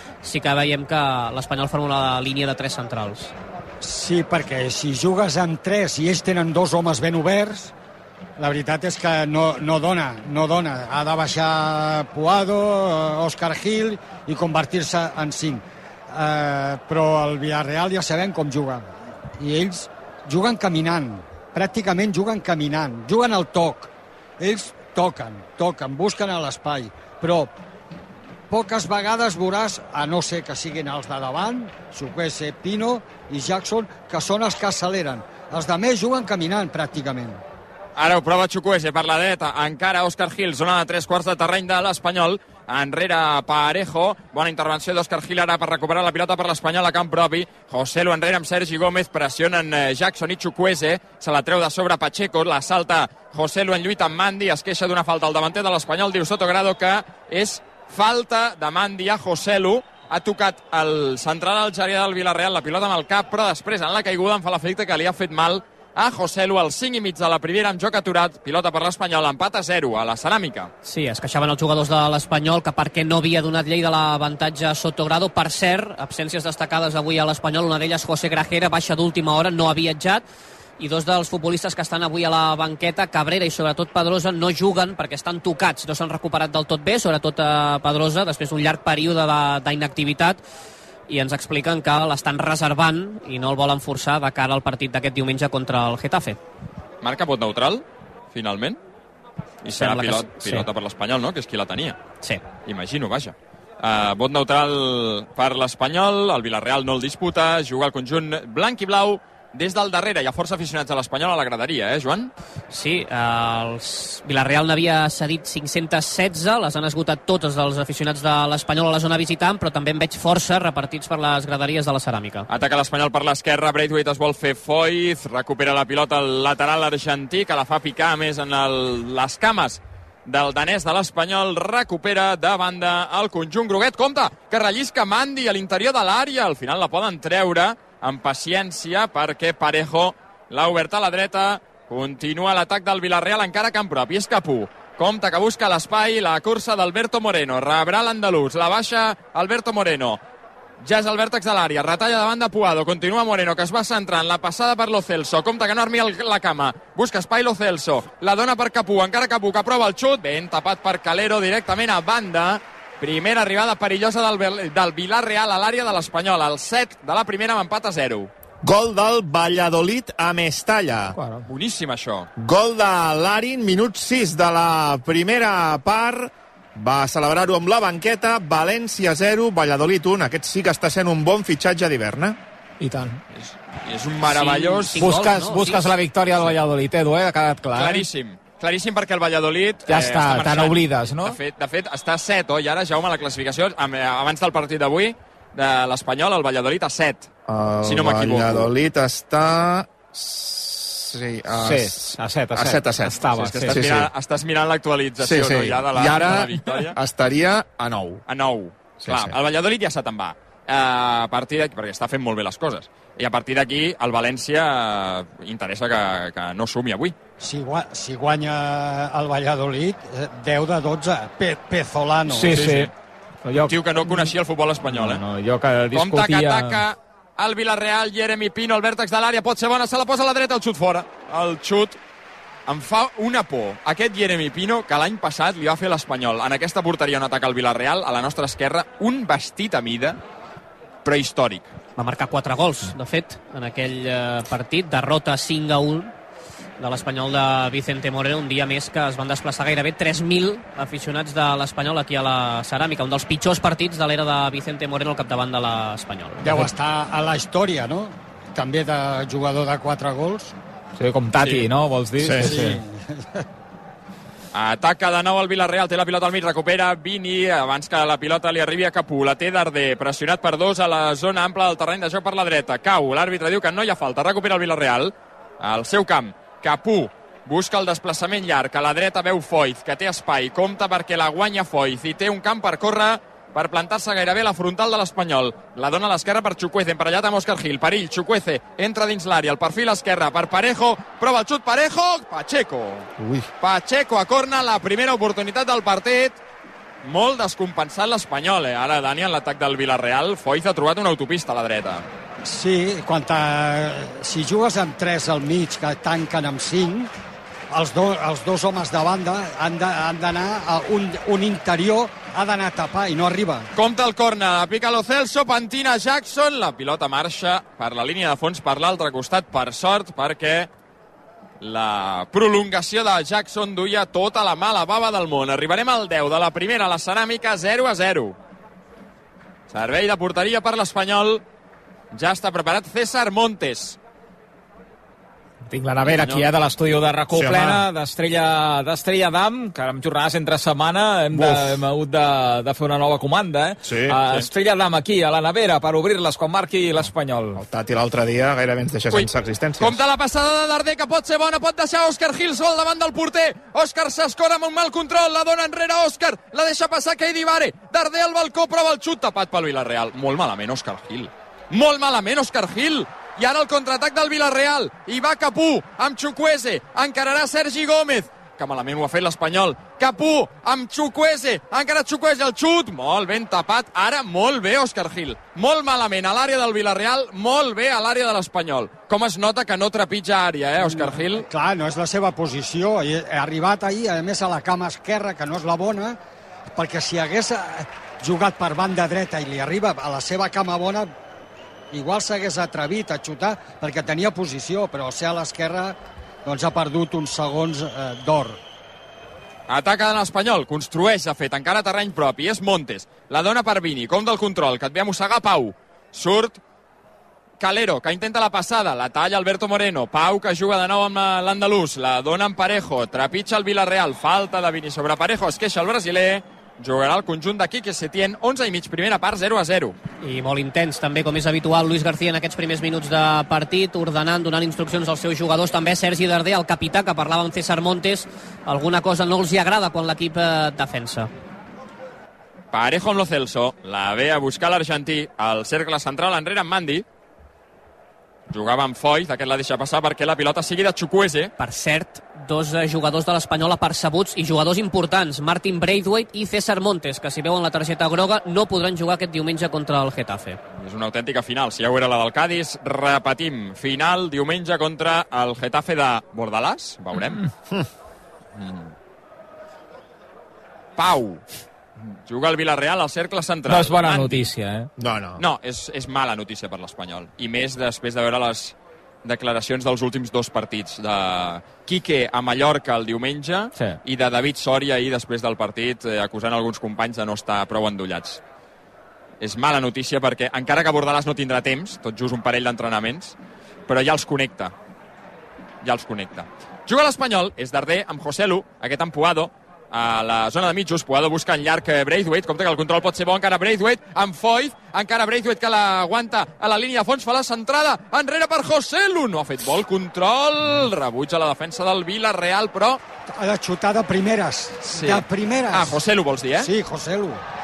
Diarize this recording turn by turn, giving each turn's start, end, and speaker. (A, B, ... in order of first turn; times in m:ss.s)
0:00.2-0:03.3 A
0:03.8-0:07.7 B
0:08.4-0:27.5 B
0:28.5-0:37.4 B
0:38.0-1:10.7 C
1:10.8-1:20.2 A
1:20.8-1:30.4 A
1:31.1-1:36.4 A
1:37.0-1:38.8 C
1:39.6-1:42.0 C
1:39.8-1:40.6 A
1:42.6-1:52.3 C
1:52.7-2:02.5 A
2:02.5-2:30.2 C
2:30.8-2:48.3 C
2:48.6-2:51.2 D
2:51.2-2:51.4 E
2:51.4-2:52.3 C
2:52.4-3:02.4 D
3:02.8-3:03.2 E
3:03.3-3:05.0 C
3:04.2-3:05.9 A
3:05.0-3:08.0 E
3:07.7-3:17.3 C
3:09.9-3:11.4 E
3:17.5-3:24.1 D
3:17.8-3:18.7 C
3:21.6-3:23.8 E
3:23.4-3:27.0 C
3:25.2-3:28.2 D
3:28.3-3:37.2 C
3:29.0-3:29.3 D
3:37.4-3:42.6 B
3:42.3-3:42.9 E
3:42.5-3:42.9 C
3:43.4-3:44.3 E
3:43.7-3:45.2 C
3:44.9-3:46.8 E
3:45.9-3:52.0 C
3:52.7-4:00.2 C
4:01.0-4:01.7 C
4:02.0-4:06.1 A
4:06.8-4:16.6 A
4:16.4-4:20.5 B
4:21.0-4:22.8 E
4:22.2-4:22.5 D
4:22.4-4:23.4 B
4:24.5-4:53.1 C
4:53.2-4:53.5 D
4:53.6-4:56.4 C
4:57.0-5:02.1 C
5:02.4-5:07.1 B
5:07.7-5:13.7 B
5:13.7-5:20.7 C
5:21.6-5:28.4 C
5:29.7-5:31.4 C
5:32.1-5:34.0 C
5:35.7-5:47.6 E
5:36.0-5:36.5 C
5:37.3-5:37.8 D
5:41.3-5:41.8 D
5:43.8-5:44.4 D
5:47.6-5:50.0 D
5:49.1-6:21.5 C
6:20.8-6:26.2 B
6:26.7-6:31.1 B
6:31.9-6:38.6 B
6:39.7-6:46.6 C
6:47.6-6:59.9 C
7:00.2-7:11.3 A
7:12.7-7:17.0 C
7:18.5-7:21.5 C
7:21.6-7:30.6 A
7:30.8-7:37.4 C
7:38.5-7:38.9 C
7:41.0-7:41.4 C
7:42.1-7:44.4 C
7:43.7-7:44.9 E
7:45.0-7:45.4 D
7:45.4-7:58.4 C
7:59.4-8:03.3 C
8:03.9-8:04.7 C
8:05.8-8:23.0 C
8:23.3-8:26.0 B
8:24.9-8:26.7 C
8:26.6-8:27.4 B